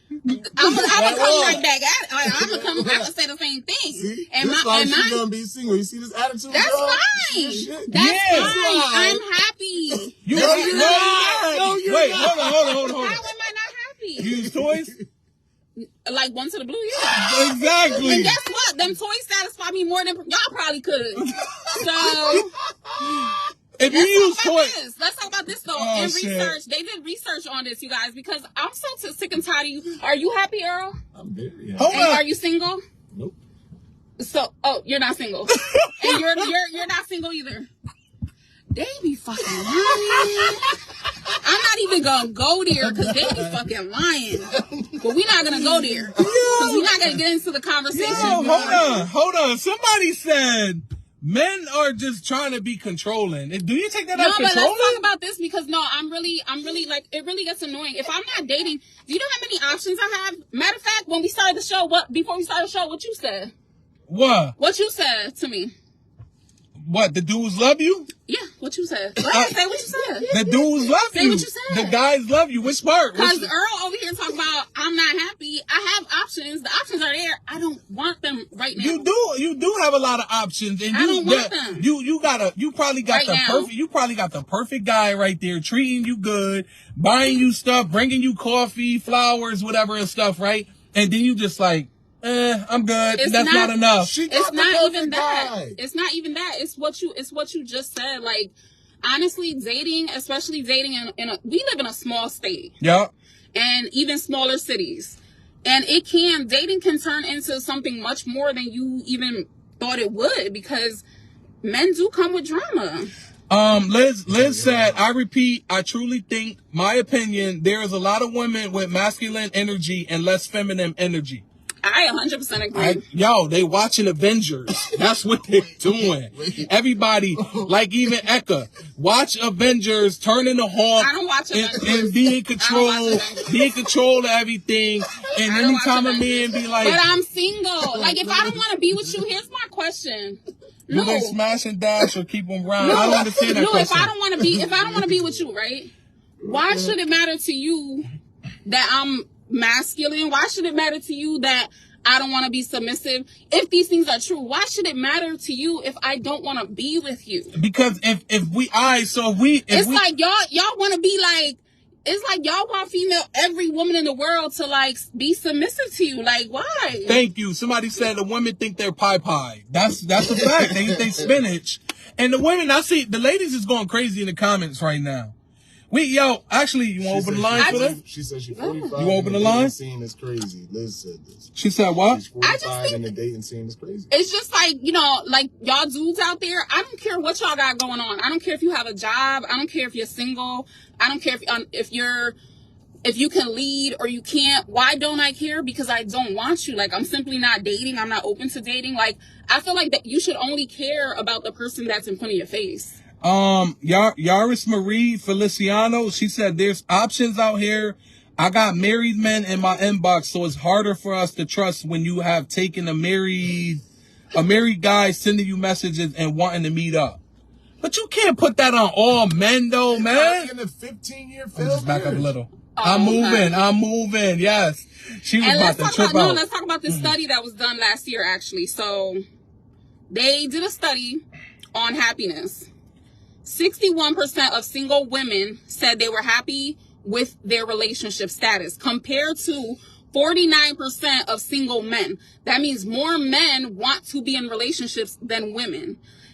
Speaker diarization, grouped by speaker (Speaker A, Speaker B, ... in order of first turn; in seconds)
Speaker A: 0.2-1.0, 7.9-8.6, 10.2-13.2, 14.2-14.9, 17.0-18.4, 21.2-21.8, 23.8-24.7, 25.7-26.6, 31.8-32.2, 35.6-36.4, 45.7-46.9, 48.0-55.0, 64.1-64.5, 66.8-68.1, 69.2-69.6, 70.3-73.5, 78.7-94.2, 102.8-103.1, 113.5-121.4, 122.7-137.0, 140.9-144.1, 157.5-160.0, 167.1-175.3, 175.9-178.0, 178.9-179.7, 181.5-182.2, 203.2-217.2, 217.8-220.5, 221.5-227.1
Speaker B: 0.5-5.2, 6.5-11.3, 12.8-14.3, 15.8-22.5, 23.1-30.9, 31.9-32.8, 34.2-37.7, 38.7-40.8, 41.3-49.0, 54.1-63.5, 64.6-65.7, 68.3-72.0, 73.1-79.0, 80.9-81.8, 83.1-83.7, 93.2-93.8, 94.3-102.7, 103.5-111.0, 111.6-113.1, 121.8-123.0, 131.0-133.7, 135.4-141.4, 142.8-145.9, 146.4-148.0, 148.6-157.5, 159.7-167.2, 177.6-177.9, 178.5-178.9, 182.4-183.0, 184.1-192.3, 193.0-203.0, 222.8-223.6, 225.4-229.2, 230.1-231.2, 231.7-232.7, 233.4-246.0
Speaker C: 0.8-1.6, 2.2-3.1, 3.9-9.2, 9.9-13.0, 14.2-15.0, 21.8-23.3, 31.1-32.0, 44.5-44.9, 46.0-47.0, 47.9-49.1, 94.0-95.8, 114.3-115.0, 125.8-126.7, 127.4-127.7, 137.8-139.2, 142.9-143.5, 144.4-145.4, 146.4-146.9, 170.4-170.9, 177.0-181.5, 182.1-184.1, 219.9-222.3